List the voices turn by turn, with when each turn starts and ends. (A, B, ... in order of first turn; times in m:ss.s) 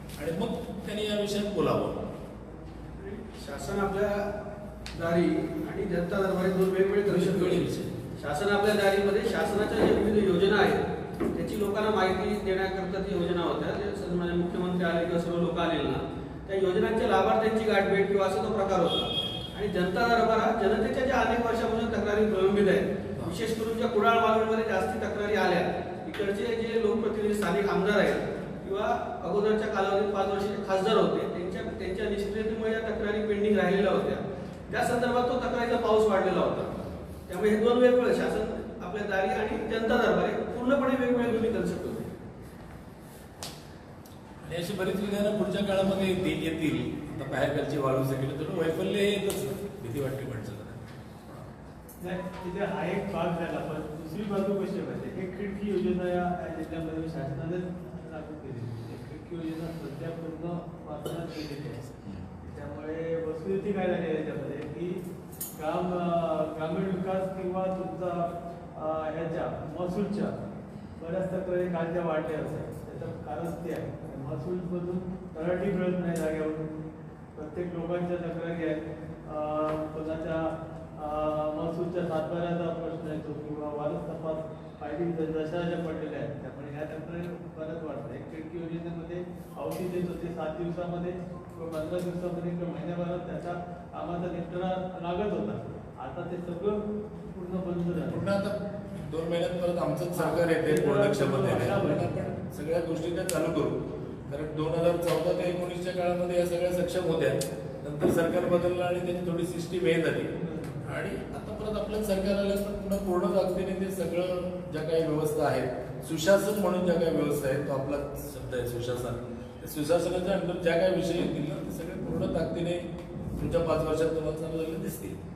0:00.2-0:02.0 A
0:03.0-0:04.2 B
0:04.9-0:07.6 B
0:07.0-0:07.9 A
0:08.2-0:10.8 B
0:11.3-0:36.7 B
0:37.3-0:42.1 B
0:44.4-0:51.4 A
0:52.0-1:01.8 C
1:02.4-1:05.0 C
1:05.6-1:10.3 C
1:11.0-1:16.6 C
1:17.4-1:38.2 C
1:38.0-1:50.3 A
1:40.1-1:42.1 C
1:50.4-1:50.8 C
1:50.8-2:02.8 A
2:03.4-2:05.2 A